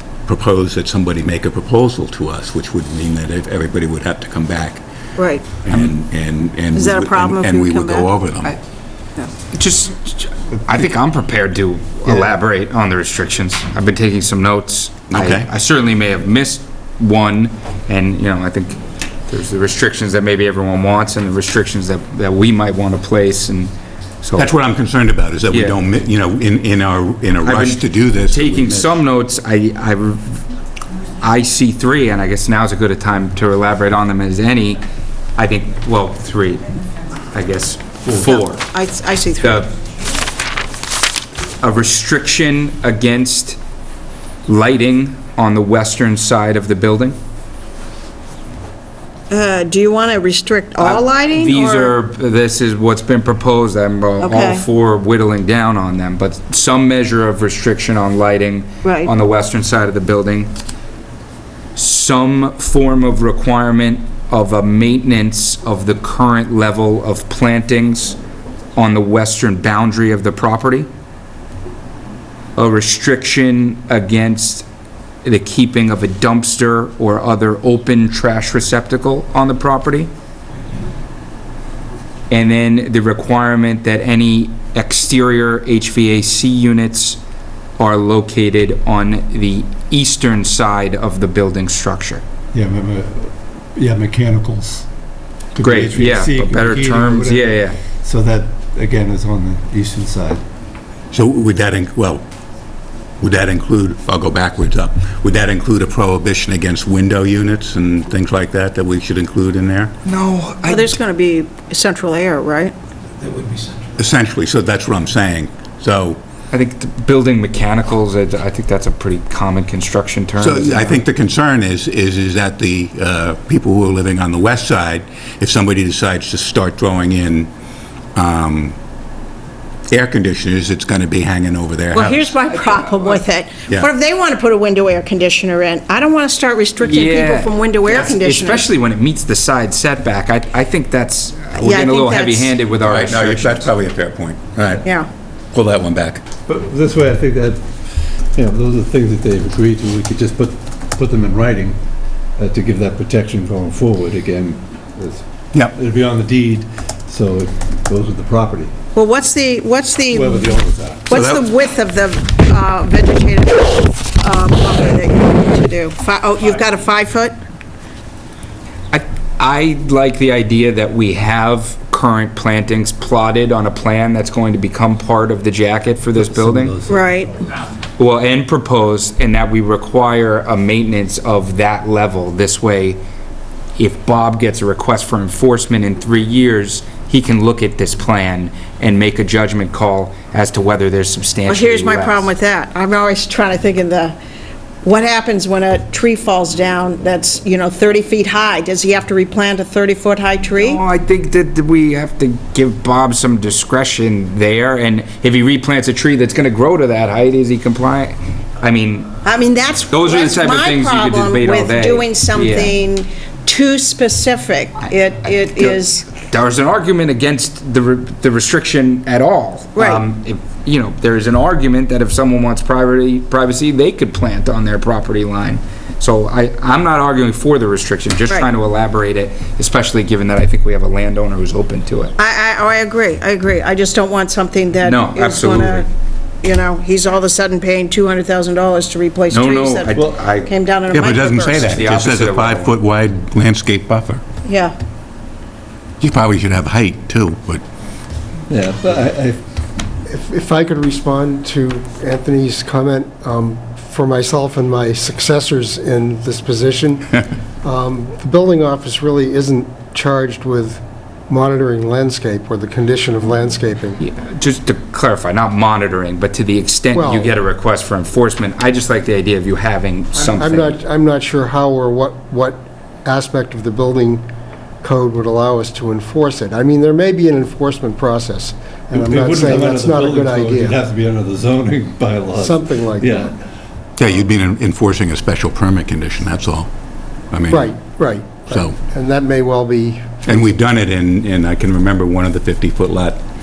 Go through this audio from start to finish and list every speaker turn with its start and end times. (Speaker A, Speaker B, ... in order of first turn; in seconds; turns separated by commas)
Speaker A: 0.2-4.8, Speaker B: 5.2-5.4, Speaker A: 5.6-8.6, Speaker B: 6.7-8.5, Speaker C: 9.5-23.7, Speaker A: 15.1-15.5, Speaker C: 24.2-24.5, Speaker A: 24.4-29.0, Speaker C: 25.5-25.8, Speaker C: 27.4-30.4, Speaker C: 31.2-34.8, Speaker C: 35.4-36.7, Speaker C: 37.3-38.6, Speaker B: 38.1-39.6, Speaker C: 39.4-39.7, Speaker C: 41.6-43.6, Speaker C: 44.5-47.2, Speaker B: 49.3-51.9, Speaker C: 50.8-60.5, Speaker B: 54.2-54.6, Speaker B: 58.8-59.1, Speaker C: 61.7-68.2, Speaker C: 68.8-70.9, Speaker C: 72.5-74.6, Speaker C: 75.2-80.1, Speaker C: 82.3-87.2, Speaker C: 87.8-92.2, Speaker D: 92.5-94.9, Speaker D: 95.5-100.4, Speaker C: 95.6-97.8, Speaker A: 101.1-102.2, Speaker A: 103.2-109.9, Speaker C: 110.0-110.9, Speaker B: 110.6-112.7, Speaker A: 113.9-116.2, Speaker C: 116.5-121.0, Speaker A: 120.4-127.5, Speaker A: 128.1-128.8, Speaker A: 129.9-132.3, Speaker B: 131.9-138.7, Speaker C: 132.5-133.2, Speaker C: 136.8-143.7, Speaker B: 141.6-142.5, Speaker A: 142.8-144.9, Speaker A: 145.5-146.2, Speaker D: 146.5-147.7, Speaker D: 148.3-151.8, Speaker D: 152.4-158.7, Speaker A: 155.5-155.8, Speaker B: 158.9-167.4, Speaker D: 160.1-161.1, Speaker A: 161.1-161.4, Speaker C: 168.9-176.8, Speaker D: 176.2-177.4, Speaker B: 176.9-177.3, Speaker C: 178.0-183.0, Speaker C: 183.8-192.3, Speaker B: 191.4-194.2, Speaker B: 194.8-200.8, Speaker C: 200.6-209.1, Speaker B: 209.2-216.1, Speaker C: 209.9-212.8, Speaker C: 215.5-232.1, Speaker B: 219.7-220.0, Speaker B: 232.2-235.8, Speaker C: 234.8-235.9, Speaker B: 236.4-241.8, Speaker C: 239.3-240.5, Speaker D: 239.9-240.3, Speaker A: 240.9-244.2, Speaker C: 241.6-242.7, Speaker B: 244.4-244.8, Speaker A: 246.0-247.6, Speaker D: 248.5-249.4, Speaker E: 250.1-264.0, Speaker C: 264.0-270.8, Speaker E: 266.9-267.3, Speaker E: 270.1-274.3, Speaker E: 274.8-280.8, Speaker D: 278.9-283.4, Speaker E: 282.3-283.3, Speaker A: 284.0-286.7, Speaker A: 287.3-287.7, Speaker E: 287.5-290.5, Speaker A: 288.5-288.8, Speaker A: 290.2-293.2